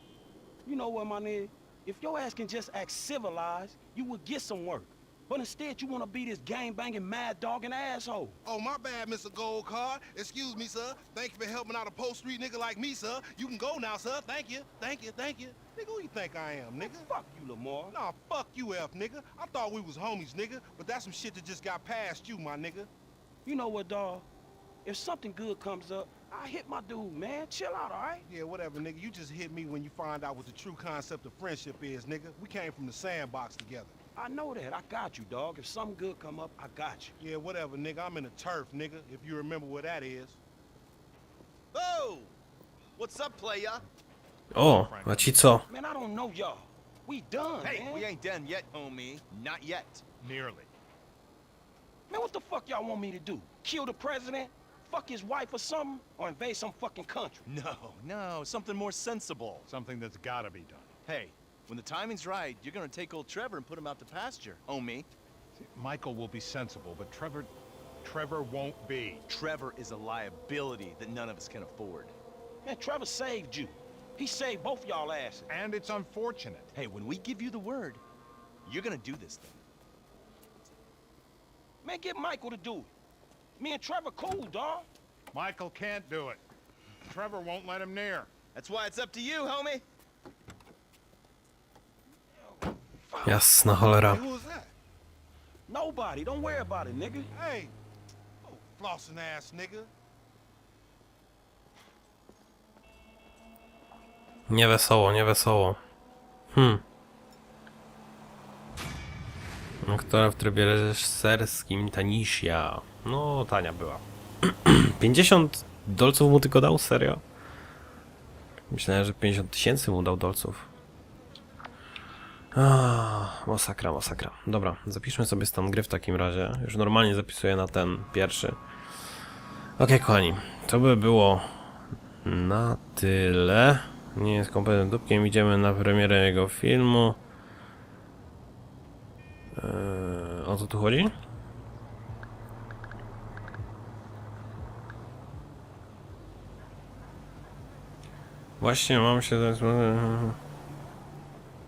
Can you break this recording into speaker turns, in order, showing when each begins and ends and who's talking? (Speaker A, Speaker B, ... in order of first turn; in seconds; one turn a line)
Speaker A: 0.6-8.4
Speaker B: 8.4-17.1
Speaker A: 16.8-17.9
Speaker B: 17.9-22.9
Speaker A: 23.4-24.2
Speaker A: 24.8-28.2
Speaker B: 28.2-33.9
Speaker A: 34.1-37.1
Speaker B: 37.2-40.4
Speaker C: 41.7-42.3
Speaker C: 43.0-43.8
Speaker D: 44.5-45.6
Speaker C: 44.6-45.4
Speaker A: 45.7-48.0
Speaker C: 47.6-50.1
Speaker E: 50.2-50.7
Speaker A: 52.1-57.4
Speaker C: 57.5-59.7
Speaker E: 59.7-61.0
Speaker C: 61.0-65.1
Speaker E: 65.6-69.2
Speaker C: 69.3-72.1
Speaker A: 72.6-75.5
Speaker E: 75.5-76.7
Speaker C: 76.7-78.0
Speaker C: 78.6-79.6
Speaker A: 81.8-82.9
Speaker A: 83.6-84.9
Speaker E: 85.3-86.4
Speaker E: 87.0-88.3
Speaker C: 88.5-89.8
Speaker A: 92.3-93.4
Speaker D: 93.2-94.2
Speaker B: 94.0-94.7
Speaker A: 95.7-97.3
Speaker B: 97.3-97.7
Speaker B: 98.4-99.9
Speaker D: 104.5-105.8
Speaker D: 106.5-106.8
Speaker D: 109.8-117.2
Speaker D: 118.7-120.7
Speaker D: 122.5-128.6
Speaker D: 129.8-131.6
Speaker D: 132.2-137.2
Speaker D: 139.6-141.1
Speaker D: 148.6-150.4